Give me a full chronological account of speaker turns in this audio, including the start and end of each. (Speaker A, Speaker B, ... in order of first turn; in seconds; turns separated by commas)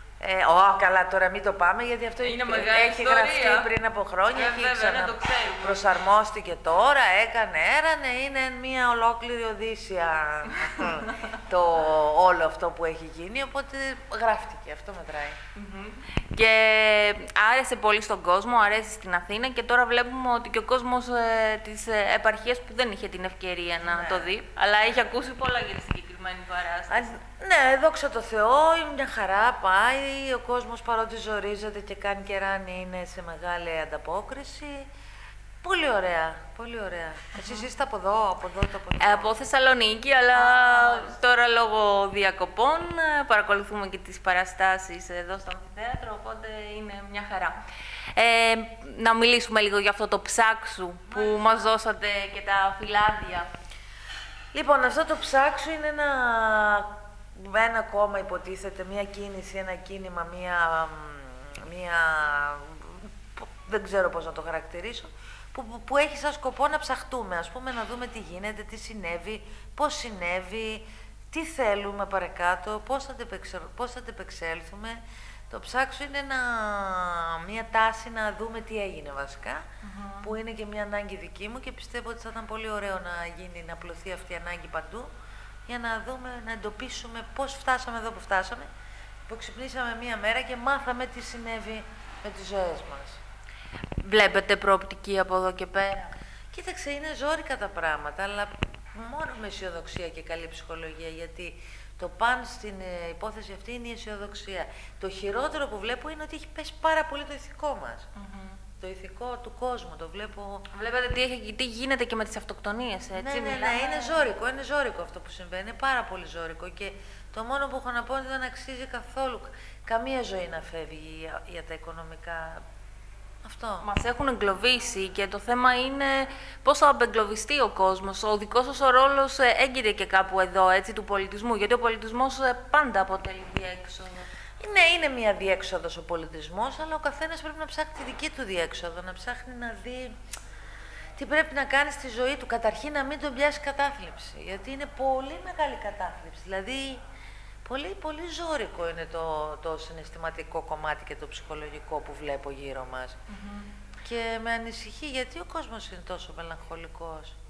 Speaker A: 0.2-15.4, Speaker B: 2.2-3.7, Speaker B: 4.3-6.0, Speaker B: 10.7-11.3, Speaker B: 15.5-27.1, Speaker A: 23.8-24.3, Speaker A: 26.9-34.9, Speaker A: 35.6-39.4, Speaker B: 37.4-37.7, Speaker B: 39.0-47.5, Speaker A: 40.3-41.5, Speaker B: 48.1-53.5, Speaker A: 51.1-51.7, Speaker A: 54.5-75.0, Speaker A: 75.5-79.6, Speaker B: 79.8-80.3, Speaker A: 80.2-85.1, Speaker A: 85.7-88.7, Speaker A: 89.3-93.2, Speaker B: 94.0-96.1, Speaker A: 96.5-108.1, Speaker B: 108.2-108.6, Speaker A: 108.8-110.7, Speaker B: 110.7-114.3, Speaker A: 113.2-122.6, Speaker A: 123.4-123.9, Speaker B: 123.8-134.3, Speaker A: 134.6-140.1, Speaker A: 141.2-147.0, Speaker A: 147.7-153.2, Speaker B: 153.3-153.7, Speaker A: 154.1-157.3